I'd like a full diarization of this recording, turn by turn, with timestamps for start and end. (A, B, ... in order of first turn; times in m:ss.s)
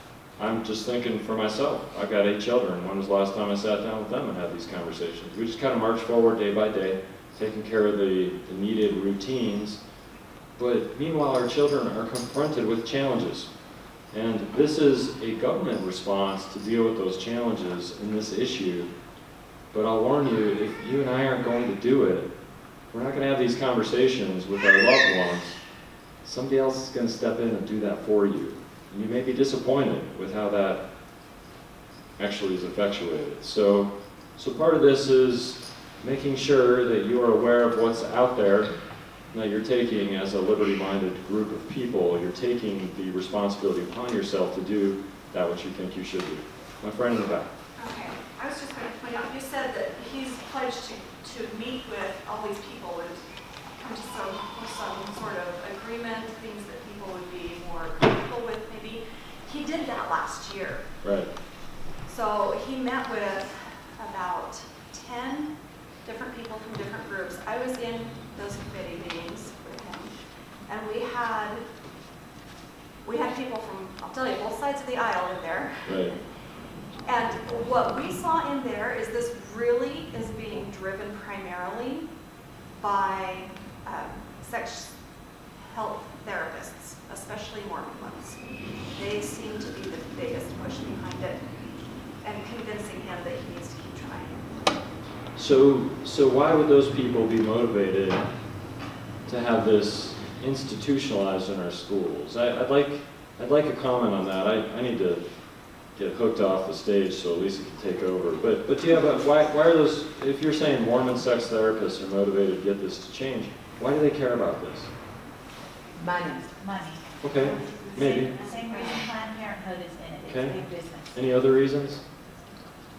0:00.4-0:09.8 A
0:10.6-0:13.5 A
0:14.1-0:18.9 A
0:19.7-0:22.3 A
0:22.9-0:25.6 A
0:26.2-0:30.8 A
0:32.2-0:38.7 A
0:39.3-0:47.5 A
0:47.8-1:00.9 B
1:01.0-1:01.3 A
1:02.0-1:11.7 B
1:13.0-1:16.3 B
1:15.9-1:16.2 A
1:17.0-1:22.1 B
1:22.8-1:31.6 B
1:32.2-1:34.7 B
1:35.4-1:38.3 A
1:39.3-1:45.2 A
1:46.0-1:54.9 A
1:56.5-1:57.0 C
1:57.2-1:58.4 A
1:57.7-1:59.2 B
1:57.8-2:01.1 C
2:00.2-2:02.0 A